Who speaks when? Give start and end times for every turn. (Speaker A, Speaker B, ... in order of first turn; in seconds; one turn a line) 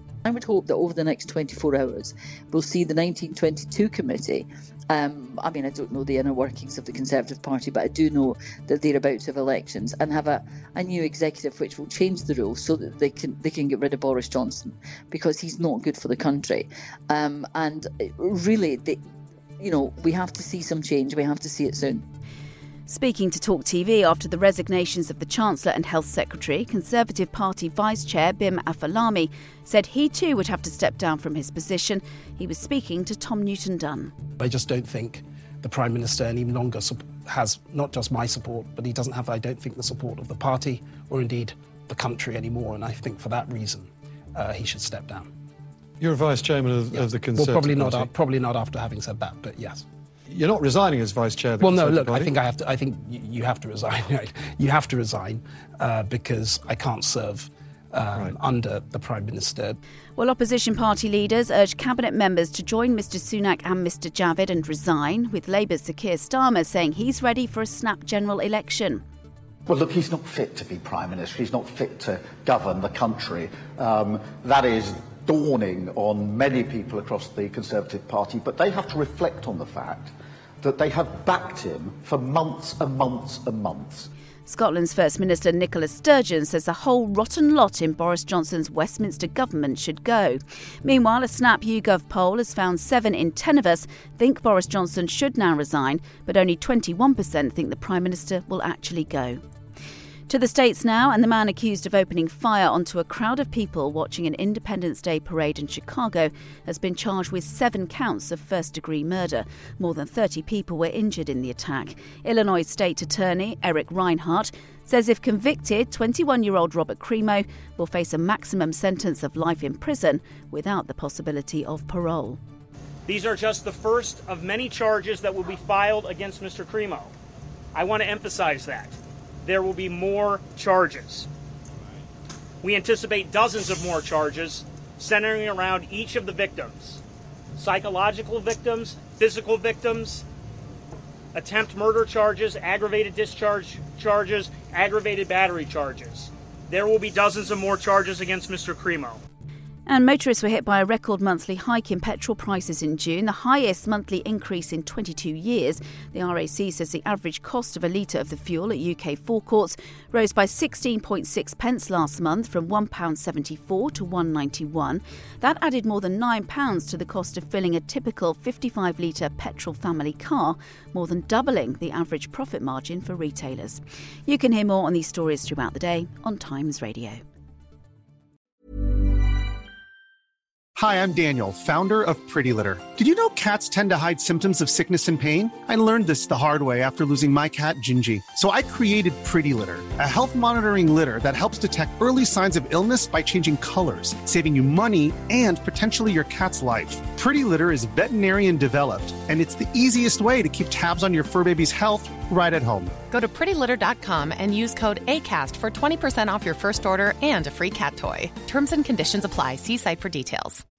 Speaker A: 0.2-19.0
Speaker A: 19.6-22.1
Speaker B: 22.9-34.1
Speaker C: 34.4-45.3
Speaker D: 46.0-48.1
Speaker C: 46.9-49.8
Speaker D: 50.3-52.3
Speaker C: 51.6-59.8
Speaker B: 60.2-69.0
Speaker E: 69.7-80.1
Speaker E: 80.6-84.1
Speaker B: 84.5-99.4
Speaker B: 100.3-122.4
Speaker F: 123.1-127.1
Speaker F: 127.7-131.3
Speaker F: 132.6-137.0
Speaker F: 137.6-140.2
Speaker F: 141.3-149.2
Speaker B: 149.9-177.2
Speaker G: 180.8-202.9
Speaker H: 203.1-210.6